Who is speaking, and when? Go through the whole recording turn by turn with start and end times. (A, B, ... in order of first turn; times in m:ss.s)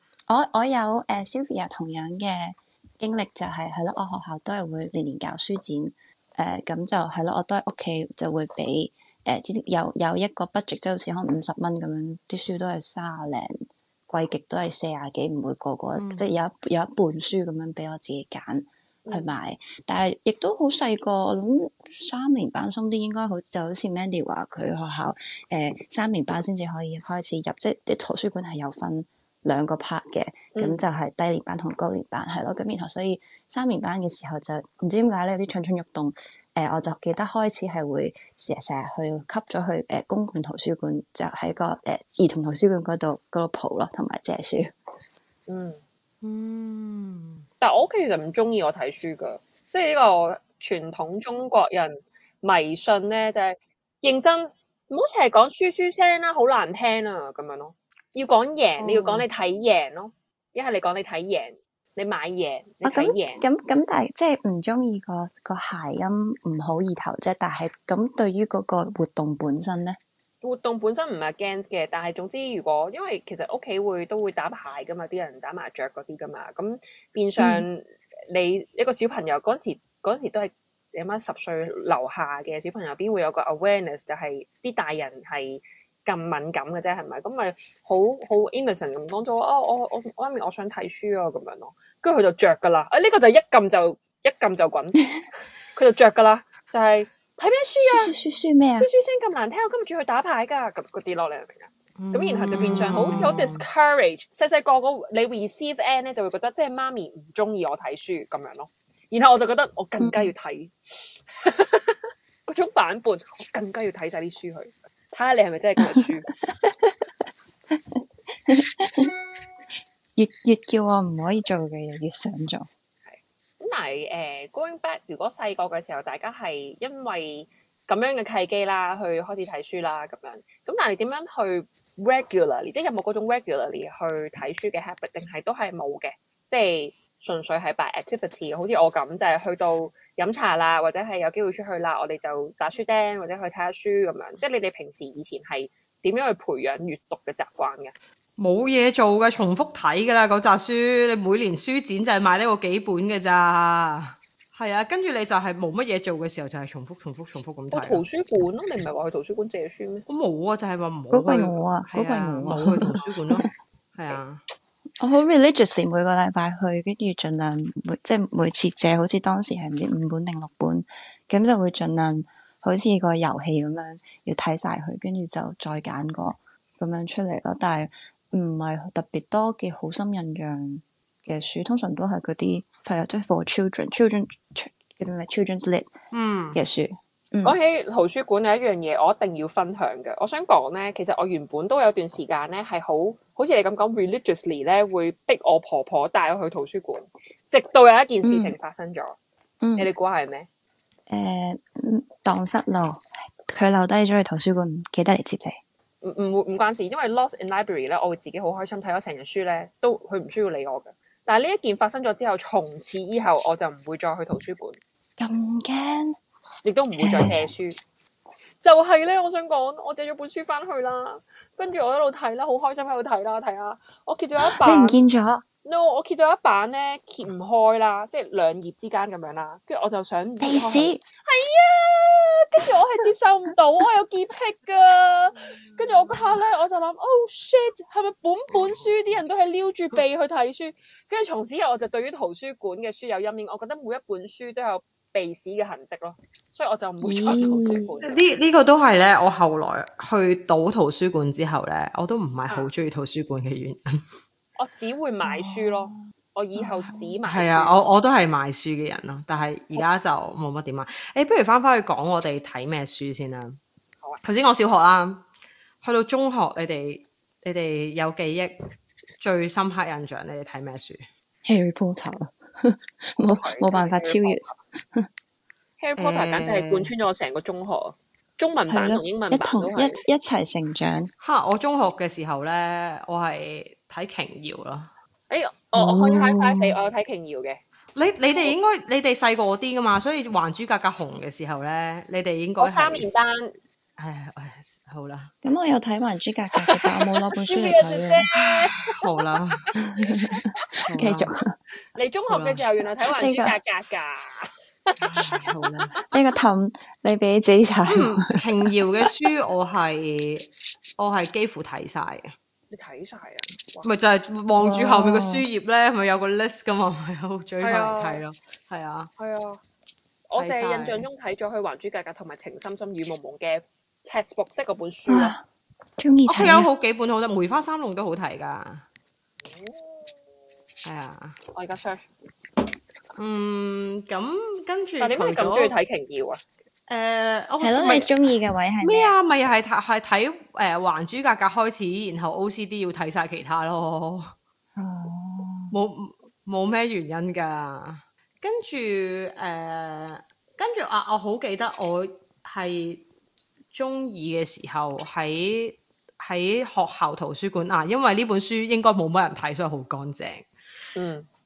0:00.3-0:44.7 A
0:16.0-0:16.3 B
0:19.0-0:19.3 C
0:30.6-0:30.8 C
0:45.5-0:45.8 C
0:46.2-0:47.4 B
0:47.6-1:03.4 C
0:58.8-0:59.2 B
1:02.8-1:10.0 A
1:10.4-1:35.0 C
1:17.4-1:17.7 A
1:35.7-1:38.1 C
1:37.8-1:38.9 A
1:38.8-1:56.3 C
1:42.0-1:43.6 B
1:50.0-1:50.3 A
1:57.7-1:59.1 A
2:00.2-2:02.7 A
2:03.1-2:27.9 C
2:28.4-2:38.0 B
2:37.7-2:40.1 C
2:40.1-2:44.4 B
2:41.1-2:43.5 A
2:45.0-3:05.9 A
3:06.1-3:06.6 B
3:06.5-3:07.6 A
3:07.4-3:19.2 C
3:18.2-3:18.5 A
3:19.6-3:19.9 A
3:19.8-3:20.5 C
3:21.1-3:25.6 A
3:26.0-3:34.8 C
3:35.2-3:36.2 A
3:36.6-3:37.8 C
3:37.0-3:37.5 A
3:38.6-3:45.0 C
3:44.4-3:45.4 A
3:45.6-4:08.3 C
3:50.4-3:51.0 A
4:07.0-4:07.9 A
4:08.0-4:14.0 B
4:14.6-4:17.8 C
4:15.2-4:16.0 A
4:16.6-4:17.1 A
4:17.3-4:23.6 B
4:24.2-4:25.2 B
4:25.8-4:28.5 B
4:29.2-4:31.1 B
4:31.4-4:35.1 A
4:33.2-4:34.5 C
4:35.8-4:40.0 C
4:36.0-4:36.9 B
4:38.7-4:41.1 A
4:41.2-4:44.9 B
4:45.3-4:47.6 C
4:45.8-4:46.8 A
4:48.0-4:53.1 B
4:52.6-4:53.6 C
4:54.0-4:55.3 B
4:55.4-4:58.2 A
4:56.6-4:59.3 C
4:59.0-4:59.7 B
5:00.0-5:01.5 A
5:00.0-5:00.5 C
5:00.9-5:01.3 B
5:01.9-5:05.4 C
5:02.3-5:02.6 B
5:03.2-5:03.6 A
5:05.0-5:06.0 B
5:06.1-5:08.7 A
5:07.9-5:12.3 B
5:12.7-5:13.9 C
5:13.8-5:19.1 B
5:14.6-5:15.4 A
5:17.6-5:18.2 C
5:19.2-5:19.6 C
5:20.3-5:25.3 C
5:20.4-5:21.1 B
5:25.1-5:25.4 A
5:26.0-5:26.7 A
5:26.3-5:28.8 B
5:29.4-5:30.1 C
5:30.8-5:31.4 B
5:31.5-5:32.1 C
5:33.2-5:35.8 B
5:35.0-5:36.4 C
5:36.9-5:38.1 B
5:37.6-5:39.2 A
5:38.8-5:44.3 B
5:44.8-5:45.8 A
5:45.7-5:53.0 B
5:53.7-6:00.5 B
6:01.0-6:01.3 C